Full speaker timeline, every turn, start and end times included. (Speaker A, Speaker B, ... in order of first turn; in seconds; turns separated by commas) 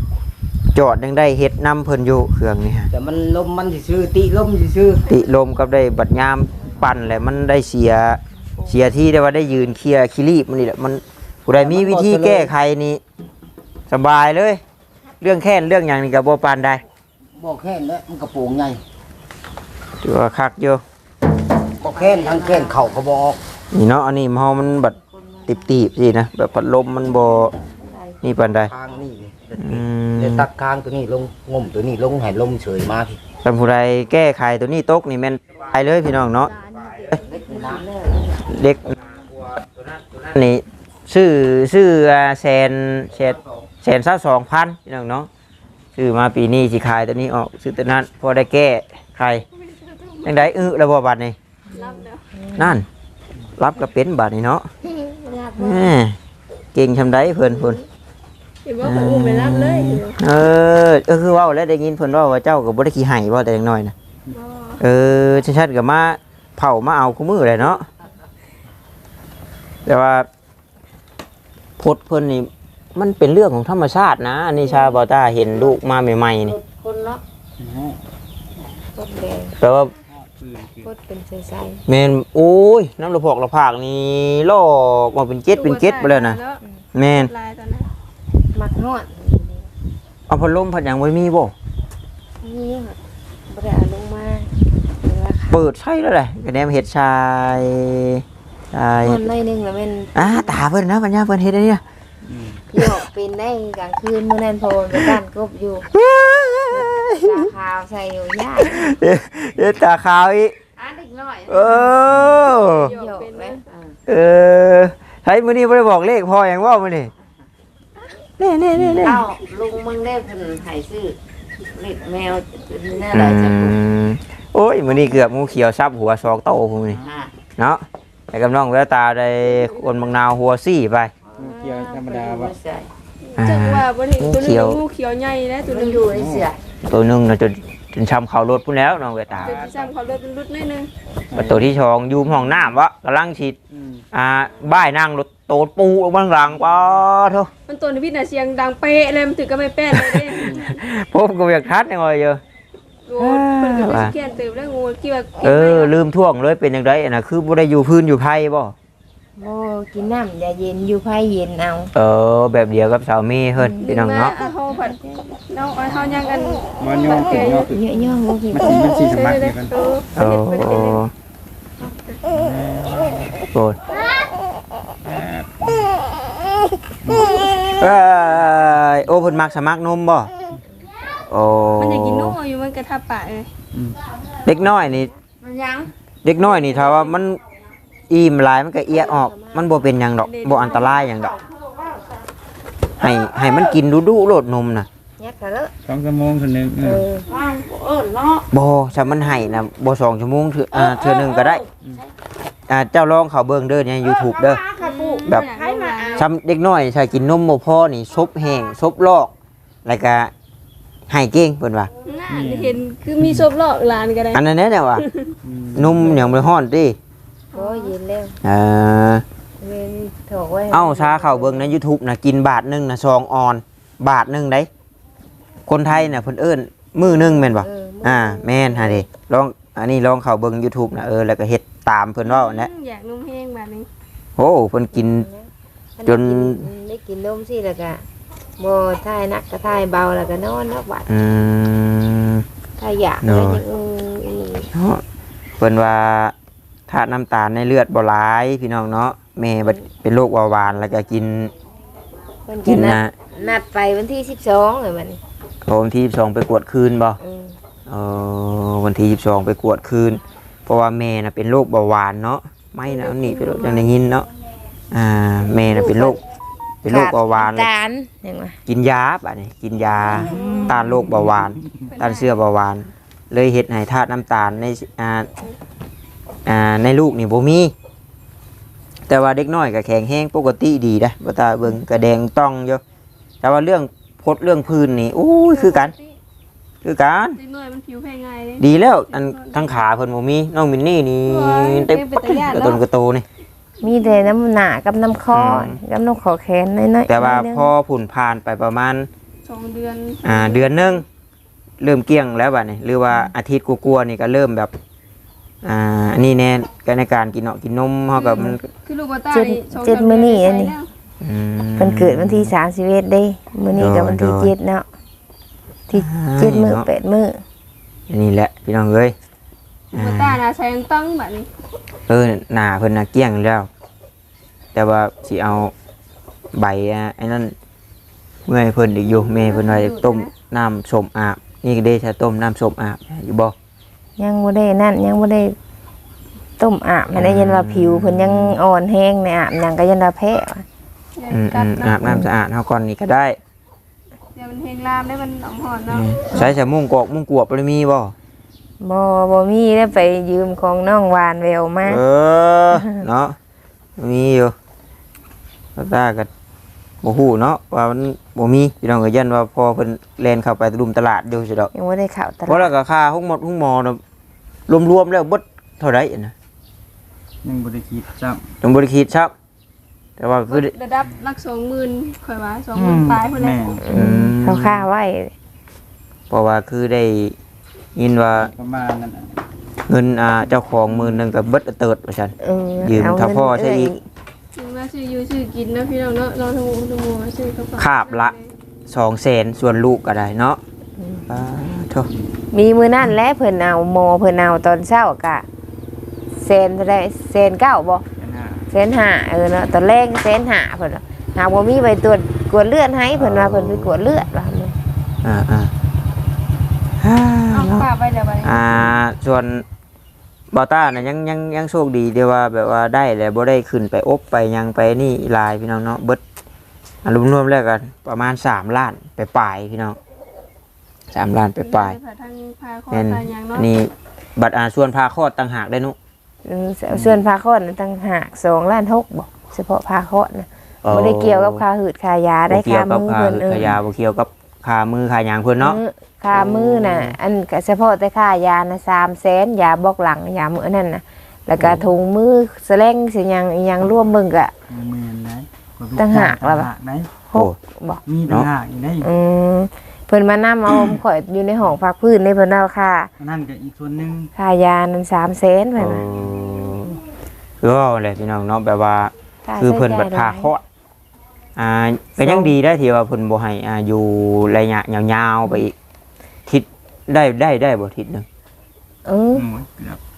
Speaker A: 0.7-2.9, Speaker B: 2.9-5.1, Speaker A: 5.1-13.0, Speaker B: 11.5-12.5, Speaker A: 13.9-14.6, Speaker A: 15.2-16.8, Speaker B: 17.4-18.8, Speaker A: 20.0-20.8, Speaker B: 21.8-23.4, Speaker C: 21.9-23.0, Speaker A: 23.7-27.5, Speaker C: 25.0-25.6, Speaker C: 27.9-28.1, Speaker A: 28.2-28.7, Speaker B: 28.6-33.2, Speaker A: 29.6-30.5, Speaker A: 33.4-37.2, Speaker C: 36.5-37.8, Speaker B: 37.2-38.2, Speaker A: 38.4-45.3, Speaker A: 45.9-49.4, Speaker D: 49.6-50.4, Speaker A: 50.2-51.4, Speaker D: 51.7-52.2, Speaker E: 52.5-52.7, Speaker A: 52.5-52.9, Speaker A: 53.6-54.7, Speaker C: 55.2-55.8, Speaker A: 55.6-56.1, Speaker A: 56.7-57.8, Speaker D: 58.6-60.2, Speaker A: 58.8-63.9, Speaker D: 64.3-64.8, Speaker A: 64.8-67.8, Speaker A: 69.8-70.3, Speaker A: 71.8-76.6, Speaker C: 76.5-77.2, Speaker F: 77.6-78.0, Speaker E: 79.0-79.6, Speaker A: 79.6-79.9, Speaker F: 80.2-80.9, Speaker E: 80.8-81.8, Speaker A: 81.9-86.4, Speaker D: 85.5-87.9, Speaker A: 86.9-87.3, Speaker E: 88.5-89.7, Speaker A: 90.3-91.5, Speaker E: 92.4-95.6, Speaker A: 95.5-99.2, Speaker E: 99.0-100.5, Speaker A: 100.1-101.8, Speaker F: 102.3-102.6, Speaker E: 102.7-105.9, Speaker A: 102.8-103.0, Speaker A: 105.9-107.5, Speaker E: 106.7-108.9, Speaker A: 108.6-110.5, Speaker C: 110.8-112.0, Speaker A: 111.5-112.9, Speaker F: 112.1-112.4, Speaker D: 112.4-113.6, Speaker E: 112.5-113.6, Speaker A: 114.1-117.1, Speaker A: 118.4-119.3, Speaker F: 118.8-119.1, Speaker C: 119.0-121.2, Speaker C: 121.7-123.8, Speaker A: 123.1-127.0, Speaker C: 127.0-127.3, Speaker A: 127.6-131.1, Speaker C: 131.3-132.9, Speaker F: 131.4-132.6, Speaker D: 133.2-136.1, Speaker A: 133.4-134.8, Speaker C: 135.6-136.5, Speaker F: 136.1-136.5, Speaker A: 136.8-139.6, Speaker F: 139.3-139.9, Speaker D: 139.4-140.9, Speaker F: 141.3-141.7, Speaker A: 141.3-143.6, Speaker F: 143.7-144.0, Speaker A: 144.1-147.5, Speaker D: 147.7-150.7, Speaker A: 149.9-152.4, Speaker D: 153.1-155.9, Speaker A: 153.2-154.1, Speaker A: 155.4-158.7, Speaker E: 159.4-161.9, Speaker A: 161.9-164.3, Speaker E: 163.6-165.3, Speaker D: 163.8-167.7, Speaker F: 166.8-167.8, Speaker E: 167.7-168.9, Speaker F: 168.5-169.7, Speaker D: 169.0-171.0, Speaker A: 170.2-171.1, Speaker F: 172.2-173.4, Speaker A: 173.5-173.8, Speaker F: 177.0-177.4, Speaker A: 177.8-180.3, Speaker A: 181.3-182.4, Speaker D: 181.8-183.5, Speaker A: 184.4-185.1, Speaker C: 185.4-185.9, Speaker A: 186.2-187.4, Speaker A: 188.1-191.3, Speaker E: 189.1-189.7, Speaker D: 190.2-190.9, Speaker C: 190.7-192.1, Speaker A: 193.0-194.9, Speaker C: 193.1-193.7, Speaker E: 195.2-195.7, Speaker F: 195.8-197.1, Speaker E: 196.8-197.3, Speaker C: 197.2-198.4, Speaker A: 198.5-201.6, Speaker C: 200.7-201.7, Speaker A: 202.7-204.6, Speaker C: 204.0-206.3, Speaker D: 204.8-206.3, Speaker A: 206.1-209.3, Speaker A: 209.8-210.3, Speaker A: 211.1-211.9, Speaker D: 212.0-214.4, Speaker F: 212.3-213.4, Speaker A: 214.3-215.0, Speaker D: 215.0-215.3, Speaker F: 215.4-216.3, Speaker A: 215.7-217.0, Speaker D: 217.5-217.9, Speaker E: 217.5-218.4, Speaker A: 218.4-219.2, Speaker E: 219.6-221.7, Speaker A: 220.7-224.7, Speaker A: 225.7-232.7, Speaker E: 227.0-229.0, Speaker D: 232.2-233.9, Speaker A: 234.4-235.3, Speaker E: 234.9-238.0, Speaker A: 236.1-236.7, Speaker E: 238.6-241.1, Speaker A: 241.1-242.4, Speaker E: 242.8-244.7, Speaker A: 243.2-243.6, Speaker A: 244.7-245.0, Speaker A: 245.6-246.3, Speaker A: 246.9-251.5, Speaker E: 252.5-255.2, Speaker A: 252.6-253.1, Speaker A: 255.6-257.2, Speaker E: 257.2-257.5, Speaker A: 257.9-264.3, Speaker D: 262.9-263.9, Speaker A: 264.9-266.2, Speaker E: 265.6-266.2, Speaker A: 266.8-267.7, Speaker E: 266.9-268.6, Speaker A: 268.6-275.3, Speaker D: 270.1-270.8, Speaker F: 270.2-271.9, Speaker D: 271.9-272.3, Speaker A: 276.4-277.7, Speaker A: 279.1-282.8, Speaker A: 283.4-285.9, Speaker D: 285.5-286.1, Speaker A: 286.8-287.4, Speaker D: 287.4-289.6, Speaker A: 288.6-293.2, Speaker D: 291.2-292.8, Speaker E: 293.8-297.7, Speaker A: 295.3-295.8, Speaker A: 297.1-299.1, Speaker D: 299.4-300.8, Speaker A: 300.2-301.0, Speaker A: 301.8-304.7, Speaker A: 305.6-308.6, Speaker D: 308.1-310.9, Speaker E: 309.3-310.7, Speaker A: 311.2-312.5, Speaker E: 311.8-314.9, Speaker A: 313.8-314.5, Speaker E: 315.9-317.4, Speaker A: 315.9-316.9, Speaker A: 318.1-319.1, Speaker D: 319.9-321.5, Speaker A: 319.9-320.4, Speaker A: 322.1-323.7, Speaker A: 324.7-325.7, Speaker A: 326.5-327.5, Speaker A: 328.4-333.5, Speaker D: 329.4-330.3, Speaker E: 334.2-335.5, Speaker E: 336.6-340.6, Speaker A: 337.1-338.6, Speaker D: 341.1-342.2, Speaker A: 341.3-343.4, Speaker D: 344.4-346.4, Speaker A: 345.9-348.1, Speaker E: 348.8-352.0, Speaker A: 351.9-353.4, Speaker E: 352.8-353.0, Speaker A: 354.0-354.5, Speaker A: 355.8-356.3, Speaker A: 357.0-361.7, Speaker E: 361.7-362.7, Speaker A: 362.5-364.0, Speaker A: 364.7-366.3, Speaker F: 367.4-368.5, Speaker A: 368.6-369.3, Speaker A: 370.2-370.7, Speaker D: 370.5-373.6, Speaker F: 372.7-373.9, Speaker E: 373.8-375.3, Speaker A: 373.9-374.8, Speaker A: 376.3-377.3, Speaker A: 377.9-378.5, Speaker F: 378.4-379.3, Speaker A: 379.9-383.9, Speaker F: 380.9-381.2, Speaker E: 382.4-384.0, Speaker D: 384.6-388.5, Speaker A: 387.8-388.3, Speaker A: 388.9-390.6, Speaker E: 391.0-391.3, Speaker A: 391.3-392.1, Speaker E: 392.5-395.4, Speaker E: 396.4-398.0, Speaker F: 398.2-398.7, Speaker E: 398.7-404.7, Speaker A: 403.1-403.9, Speaker A: 405.2-405.7, Speaker A: 407.0-407.9, Speaker D: 407.5-408.6, Speaker A: 408.4-409.6, Speaker A: 410.5-416.2, Speaker A: 417.0-420.0, Speaker A: 421.1-422.0, Speaker D: 421.6-423.7, Speaker A: 422.9-425.9, Speaker E: 426.4-433.7, Speaker A: 426.9-427.2, Speaker A: 430.8-431.6, Speaker A: 432.5-435.8, Speaker E: 435.6-444.5, Speaker A: 436.3-437.2, Speaker A: 441.6-441.8, Speaker F: 444.7-447.1, Speaker E: 446.0-446.7, Speaker E: 447.2-448.0, Speaker F: 448.1-449.1, Speaker E: 449.0-453.1, Speaker F: 453.2-454.3, Speaker E: 454.3-456.0, Speaker A: 455.8-457.0, Speaker A: 457.6-460.6, Speaker E: 459.5-460.5, Speaker A: 461.6-465.7, Speaker E: 462.2-462.5, Speaker A: 466.4-468.3, Speaker E: 469.1-469.4, Speaker F: 469.3-470.0